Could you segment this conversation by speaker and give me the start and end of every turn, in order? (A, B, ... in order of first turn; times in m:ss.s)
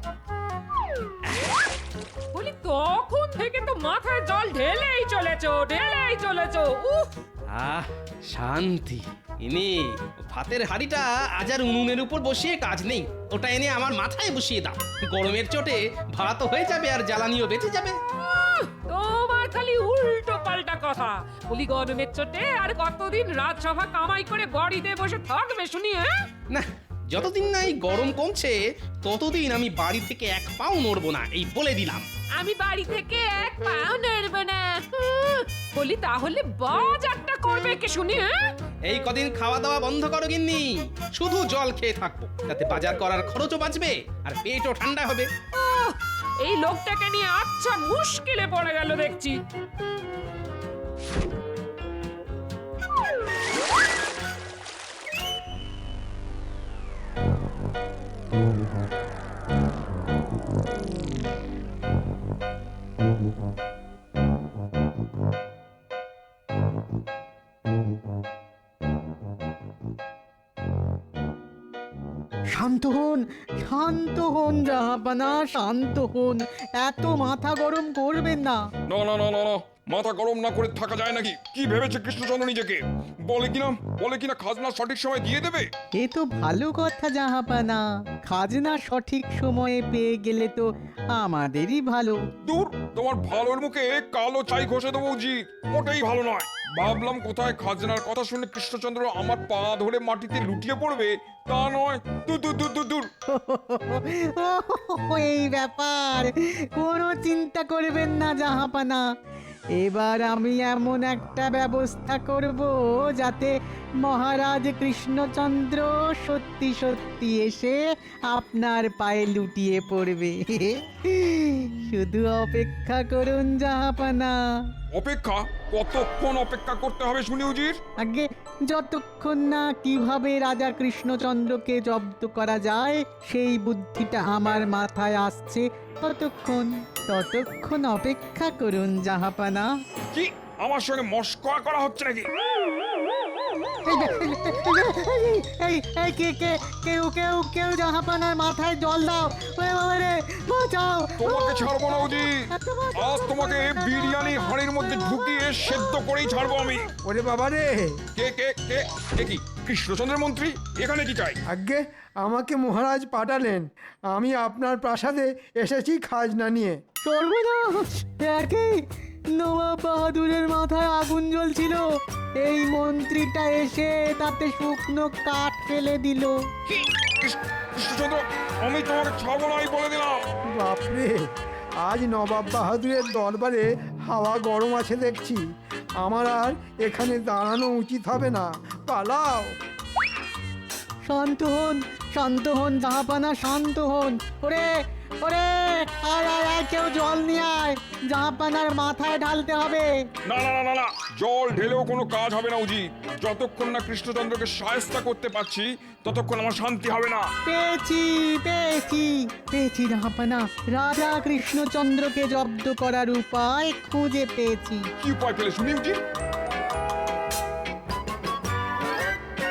0:02.3-0:07.1 A
0:07.5-0:18.0 B
0:18.2-0:26.1 A
0:26.5-0:32.1 B
0:32.4-0:38.4 A
0:38.9-0:45.3 B
0:45.6-0:49.4 A
1:12.5-1:18.6 C
1:18.9-1:25.7 D
1:26.0-1:32.2 C
1:32.4-1:43.1 D
1:43.3-1:49.0 C
1:49.8-2:04.4 C
2:04.9-2:07.8 D
2:08.0-2:19.7 C
2:20.1-2:22.3 D
2:23.8-2:31.7 C
2:31.2-2:32.4 D
2:32.5-2:34.4 C
2:33.0-2:36.9 D
2:37.0-2:37.9 E
2:38.2-2:41.4 D
2:41.5-2:46.8 E
2:47.0-2:48.8 C
2:49.4-2:51.8 C
2:52.4-2:56.3 C
2:56.7-3:00.2 D
3:00.5-3:01.2 E
3:01.8-3:05.4 E
3:06.0-3:09.5 E
3:11.1-3:19.9 C
3:20.2-3:27.3 D
3:27.4-3:34.9 C
3:35.0-3:36.0 D